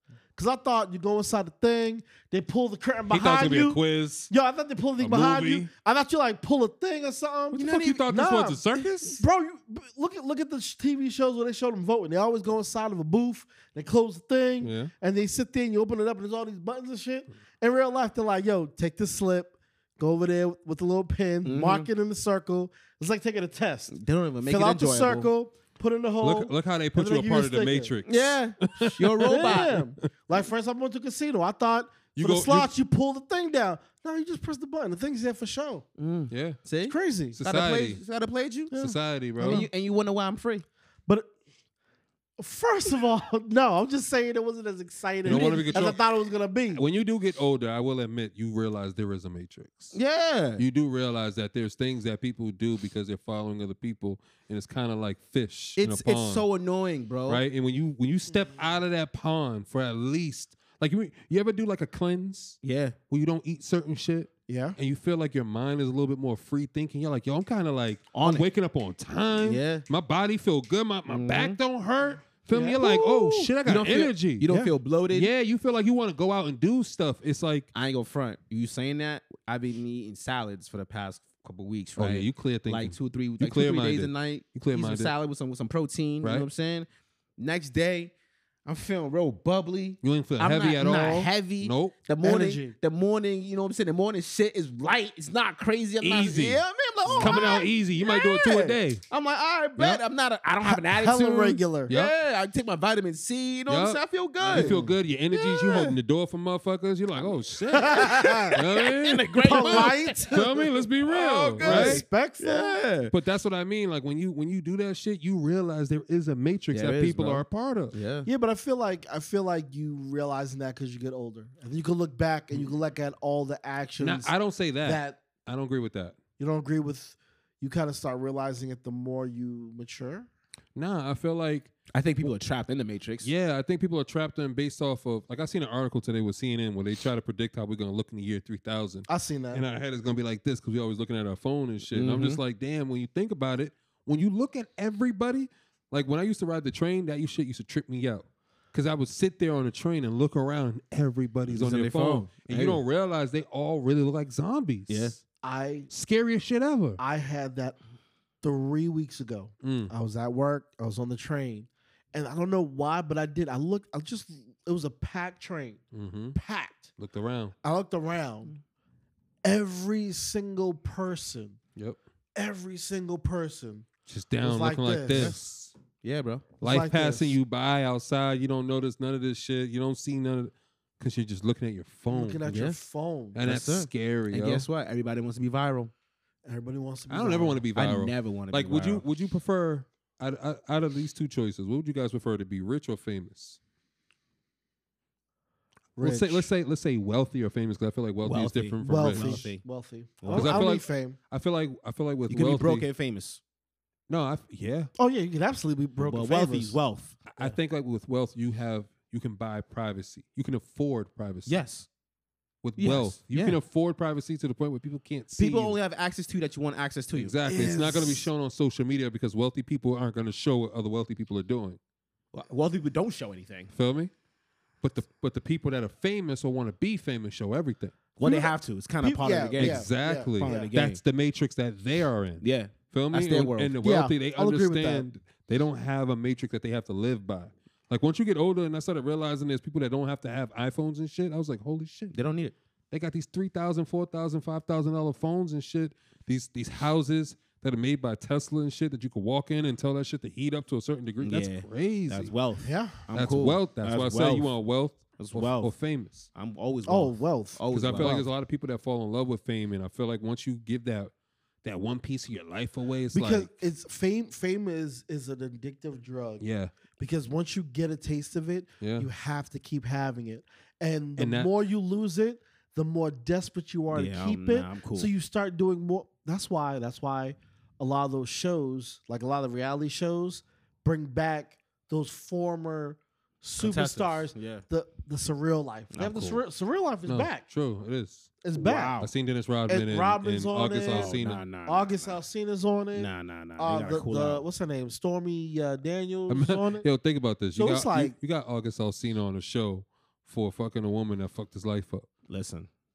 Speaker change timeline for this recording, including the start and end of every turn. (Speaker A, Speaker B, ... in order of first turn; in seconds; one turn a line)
Speaker A: 0.3-23.9
Speaker B: 3.1-4.3
Speaker B: 5.0-5.7
Speaker B: 7.5-9.2
Speaker C: 7.5-8.0
Speaker B: 14.6-14.9
Speaker C: 21.4-21.9
Speaker C: 23.9-25.3
Speaker A: 24.4-27.9
Speaker B: 26.2-30.0
Speaker C: 28.1-29.7
Speaker A: 29.2-35.9
Speaker B: 32.1-32.7
Speaker C: 36.0-38.7
Speaker B: 36.3-36.6
Speaker A: 36.9-37.4
Speaker B: 37.3-38.0
Speaker A: 38.7-39.7
Speaker B: 38.7-39.6
Speaker C: 39.4-40.6
Speaker A: 42.4-46.8
Speaker B: 45.2-46.0
Speaker C: 45.3-45.6
Speaker B: 46.7-49.9
Speaker C: 49.9-50.6
Speaker B: 50.6-56.5
Speaker C: 55.8-57.4
Speaker B: 57.3-74.5
Speaker C: 62.6-62.9
Speaker A: 64.5-64.8
Speaker C: 68.1-68.5
Speaker C: 69.4-69.8
Speaker C: 71.1-71.5
Speaker A: 72.5-73.5
Speaker C: 73.6-75.3
Speaker B: 75.1-77.7
Speaker C: 77.7-88.1
Speaker B: 82.0-85.1
Speaker B: 86.2-86.5
Speaker C: 88.7-97.7
Speaker B: 90.0-91.9
Speaker A: 92.2-92.7
Speaker B: 96.0-96.6
Speaker A: 97.0-98.8
Speaker B: 97.2-99.0
Speaker C: 99.1-104.8
Speaker A: 100.6-101.9
Speaker B: 101.9-102.1
Speaker B: 103.7-112.0
Speaker A: 104.5-105.0
Speaker C: 105.3-105.9
Speaker C: 107.2-110.3
Speaker A: 107.7-108.5
Speaker A: 109.4-110.7
Speaker C: 111.1-113.1
Speaker A: 111.6-112.8
Speaker B: 113.1-117.9
Speaker C: 116.7-118.3
Speaker A: 118.2-124.3
Speaker B: 124.0-126.2
Speaker A: 124.8-125.2
Speaker A: 126.4-130.3
Speaker B: 130.8-131.7
Speaker C: 131.9-133.3
Speaker B: 133.2-155.1
Speaker A: 139.1-139.6
Speaker C: 141.9-142.4
Speaker C: 151.5-152.8
Speaker C: 154.9-155.2
Speaker A: 155.4-155.9
Speaker B: 155.9-157.0
Speaker A: 157.0-157.8
Speaker A: 158.4-165.8
Speaker B: 159.6-159.9
Speaker B: 165.9-166.3
Speaker A: 166.3-166.9
Speaker B: 167.0-167.5
Speaker A: 167.6-168.5
Speaker A: 169.4-171.6
Speaker A: 172.3-173.9
Speaker B: 174.1-175.7
Speaker A: 174.4-175.4
Speaker C: 175.1-175.4
Speaker C: 176.0-176.4
Speaker A: 176.6-177.4
Speaker B: 176.6-182.4
Speaker A: 182.1-183.4
Speaker C: 182.5-182.8
Speaker B: 183.3-184.7
Speaker C: 183.4-185.9
Speaker A: 186.4-187.6
Speaker B: 187.1-193.6
Speaker C: 187.7-189.0
Speaker A: 196.0-196.5
Speaker B: 196.0-199.4
Speaker C: 198.2-199.6
Speaker A: 198.8-201.2
Speaker C: 200.2-200.6
Speaker B: 200.3-202.8
Speaker C: 202.3-203.4
Speaker B: 204.1-204.9
Speaker A: 205.0-206.8
Speaker C: 206.0-207.5
Speaker B: 207.3-211.6
Speaker C: 211.4-211.9
Speaker B: 212.6-215.8
Speaker C: 212.8-213.6
Speaker C: 215.3-217.3
Speaker B: 217.1-221.8
Speaker A: 217.4-218.3
Speaker C: 222.3-223.7
Speaker B: 223.7-224.1
Speaker B: 224.8-228.0
Speaker C: 228.2-231.0
Speaker A: 228.2-230.7
Speaker B: 229.6-242.2
Speaker C: 232.4-233.7
Speaker A: 233.8-235.1
Speaker C: 242.1-242.5
Speaker B: 242.9-252.3
Speaker C: 251.2-254.5
Speaker A: 252.6-253.0
Speaker B: 253.1-256.3
Speaker C: 255.2-255.7
Speaker C: 256.3-258.2
Speaker A: 256.9-258.3
Speaker B: 257.7-261.1
Speaker B: 261.6-263.5
Speaker A: 263.1-266.4
Speaker B: 266.4-266.7
Speaker A: 267.0-287.4
Speaker B: 268.8-269.1
Speaker B: 271.2-271.5
Speaker C: 273.9-275.1
Speaker C: 283.6-284.6
Speaker C: 285.9-286.4
Speaker B: 287.1-288.3
Speaker A: 288.4-289.0
Speaker C: 288.5-289.1
Speaker B: 289.0-291.4
Speaker A: 289.7-296.9
Speaker C: 290.9-292.1
Speaker C: 292.9-294.4
Speaker B: 296.3-302.1
Speaker A: 297.6-298.1
Speaker C: 302.3-302.7